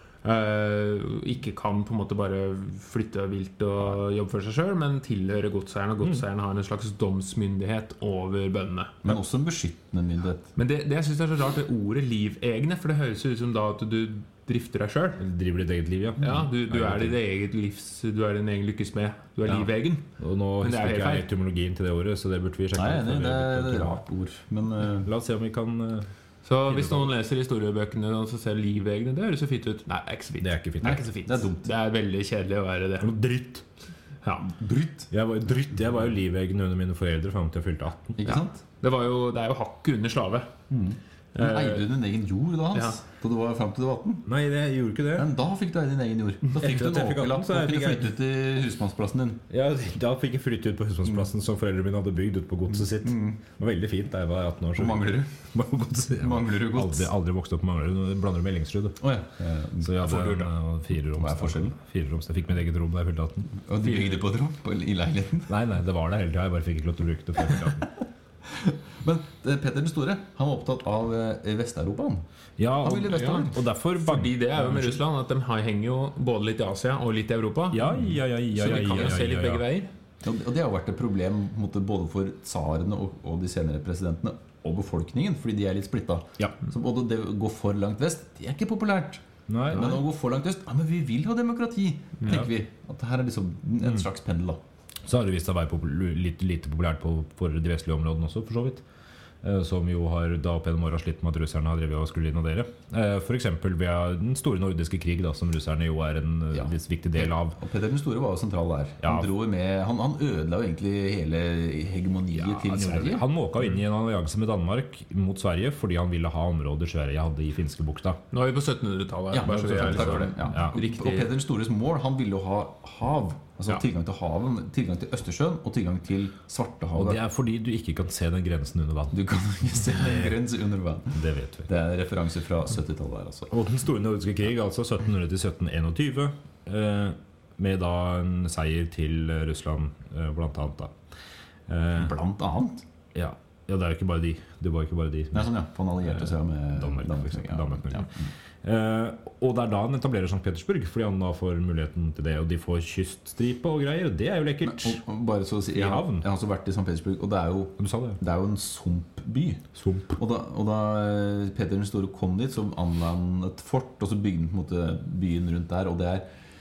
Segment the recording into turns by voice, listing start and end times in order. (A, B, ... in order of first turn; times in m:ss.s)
0:00.2-0:09.0 A
0:09.0-0:10.5 B
0:10.6-0:15.2 A
0:15.2-0:17.2 C
0:16.2-0:20.1 A
0:19.5-0:24.0 C
0:20.6-0:21.3 A
0:22.7-0:25.1 B
0:25.0-0:26.1 C
0:26.4-0:33.1 A
0:26.7-0:27.1 C
0:30.4-0:31.0 C
0:30.8-0:31.7 B
0:33.0-0:33.6 C
0:34.2-0:34.5 A
0:34.5-0:35.1 B
0:35.1-0:38.2 C
0:38.2-0:38.6 B
0:38.3-0:40.5 A
0:40.7-0:44.3 B
0:41.4-0:41.9 A
0:42.7-0:43.0 A
0:44.3-0:45.3 C
0:45.2-0:49.4 B
0:46.6-0:48.1 C
0:49.5-0:59.0 C
0:52.7-0:53.4 B
0:54.8-0:55.3 B
0:56.2-0:57.1 B
0:59.0-1:00.4 B
0:59.8-1:03.5 C
1:00.1-1:00.4 A
1:01.1-1:01.8 B
1:03.6-1:05.5 B
1:05.5-1:07.9 C
1:08.5-1:12.2 B
1:12.6-1:15.0 C
1:12.8-1:13.6 B
1:13.0-1:18.0 A
1:17.7-1:19.6 C
1:18.5-1:19.9 A
1:20.2-1:34.6 B
1:29.5-1:30.0 C
1:35.0-1:38.8 C
1:39.4-1:47.6 C
1:46.5-1:53.2 B
1:49.0-1:49.3 C
1:52.3-1:58.2 C
1:58.3-2:01.3 A
1:59.3-2:07.2 B
1:59.5-2:00.7 C
2:07.0-2:09.2 C
2:09.1-2:13.5 B
2:09.8-2:10.4 C
2:11.2-2:11.7 C
2:13.5-2:20.9 C
2:21.7-2:22.1 C
2:22.0-2:22.8 B
2:23.1-2:25.5 C
2:25.3-2:28.3 B
2:26.0-2:28.1 C
2:28.6-2:35.0 C
2:34.6-2:39.6 B
2:35.7-2:36.2 C
2:37.8-2:38.2 C
2:39.8-2:40.2 C
2:40.2-2:46.3 B